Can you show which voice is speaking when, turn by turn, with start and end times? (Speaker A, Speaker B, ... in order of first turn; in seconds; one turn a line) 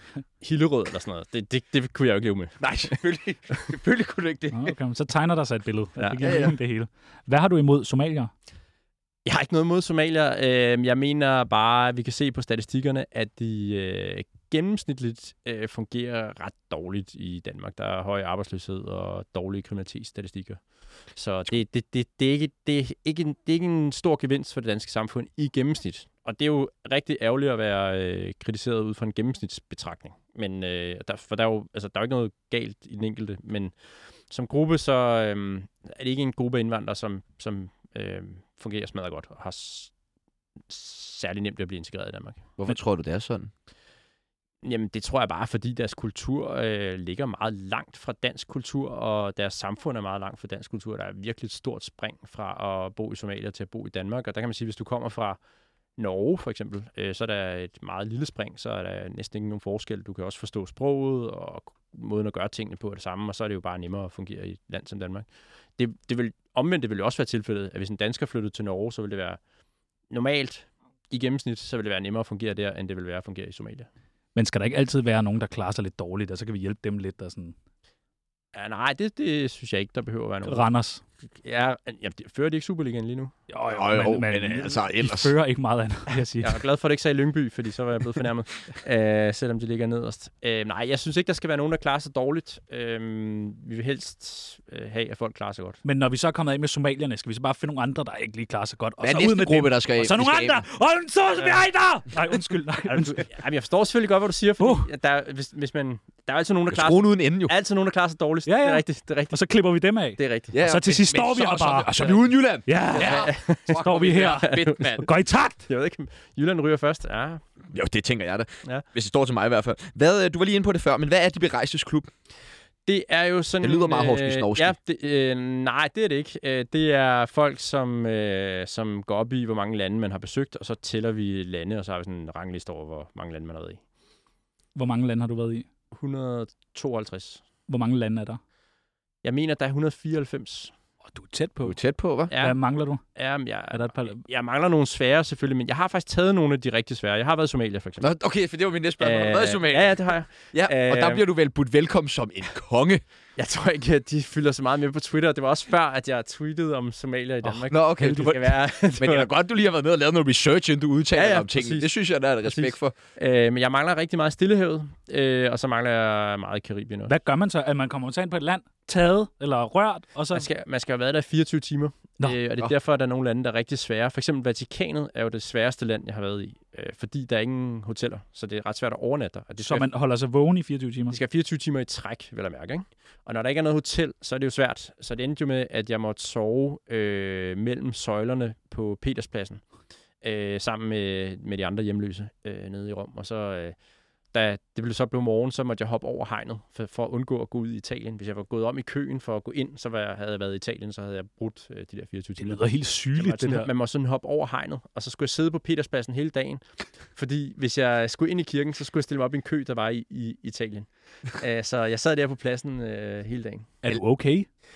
Speaker A: 0.4-2.9
Speaker B: 2.6-4.8
Speaker C: 4.5-8.3
Speaker A: 6.0-6.5
Speaker B: 6.2-6.5
Speaker A: 9.3-33.8
Speaker A: 34.3-39.9
Speaker A: 40.7-42.5
Speaker B: 42.6-43.5
Speaker A: 44.6-55.4
Speaker A: 56.0-69.4
Speaker A: 70.1-73.9
Speaker C: 74.3-77.5
Speaker A: 78.5-80.7
Speaker C: 80.5-81.0
Speaker A: 81.4-83.3
Speaker C: 83.5-86.6
Speaker B: 83.7-85.3
Speaker A: 86.4-95.8
Speaker C: 95.8-103.2
Speaker B: 99.0-100.6
Speaker A: 101.4-101.6
Speaker A: 102.9-109.4
Speaker C: 104.6-104.9
Speaker B: 106.7-107.5
Speaker C: 108.5-112.1
Speaker A: 110.2-110.6
Speaker B: 110.5-115.1
Speaker C: 112.7-115.6
Speaker A: 112.9-115.1
Speaker A: 115.7-117.5
Speaker B: 117.7-122.1
Speaker A: 122.9-133.8
Speaker B: 123.6-124.8
Speaker C: 134.8-135.7
Speaker A: 135.9-137.4
Speaker C: 137.7-138.4
Speaker A: 139.2-140.7
Speaker C: 141.1-141.8
Speaker B: 141.6-142.3
Speaker A: 142.3-148.1
Speaker C: 142.4-143.0
Speaker C: 143.7-144.2
Speaker B: 148.0-153.0
Speaker A: 149.0-151.3
Speaker A: 153.4-159.3
Speaker B: 157.7-162.9
Speaker A: 161.1-167.1
Speaker C: 167.1-170.4
Speaker A: 170.3-179.9
Speaker C: 179.6-181.2
Speaker A: 181.1-189.6
Speaker A: 190.2-193.8
Speaker A: 194.3-213.8
Speaker C: 202.4-203.7
Speaker C: 213.8-214.5